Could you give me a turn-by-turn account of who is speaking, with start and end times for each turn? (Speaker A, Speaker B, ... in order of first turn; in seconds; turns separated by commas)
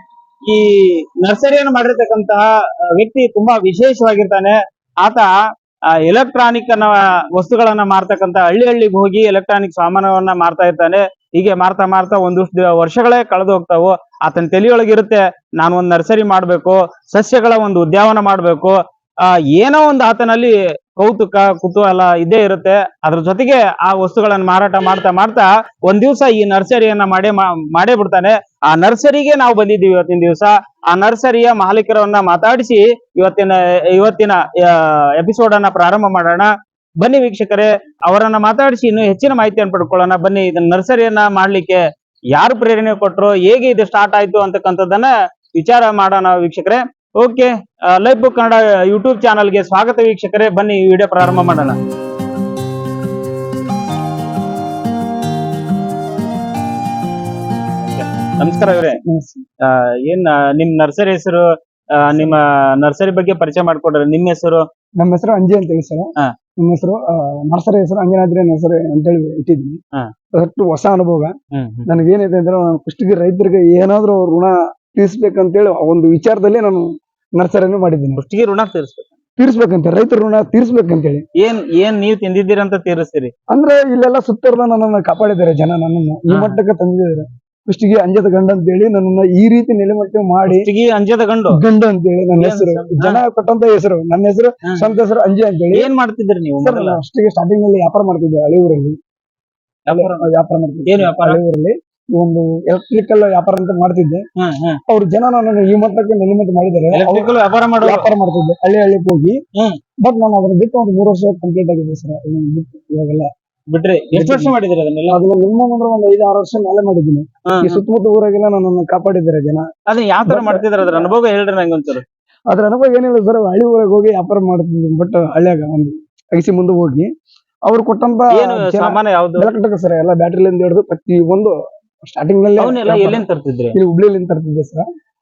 Speaker A: 0.5-5.3, Speaker A: 6.0-41.8, Speaker A: 42.3-51.8, Speaker A: 57.9-59.0, Speaker B: 59.0-59.4, Speaker A: 59.6-64.7, Speaker B: 65.0-66.1, Speaker B: 66.6-69.8, Speaker B: 70.3-71.3, Speaker A: 71.5-71.9, Speaker B: 71.9-76.9, Speaker B: 77.4-78.2, Speaker A: 78.2-79.1, Speaker B: 79.4-81.2, Speaker A: 81.4-83.3, Speaker B: 83.5-90.7, Speaker A: 86.3-86.6, Speaker A: 90.5-91.6, Speaker B: 91.5-95.9, Speaker A: 92.4-93.2, Speaker A: 95.7-97.0, Speaker B: 96.6-99.0, Speaker A: 99.9-100.3, Speaker B: 99.9-104.2, Speaker A: 100.9-101.4, Speaker A: 104.4-104.8, Speaker B: 104.9-109.4, Speaker A: 106.9-108.1, Speaker B: 110.0-113.3, Speaker A: 113.7-115.2, Speaker B: 114.2-114.5, Speaker B: 115.1-119.7, Speaker A: 117.5-117.8, Speaker A: 119.9-122.0, Speaker B: 120.3-121.1, Speaker B: 122.5-127.1, Speaker B: 127.7-134.8, Speaker A: 128.3-129.5, Speaker A: 132.6-133.8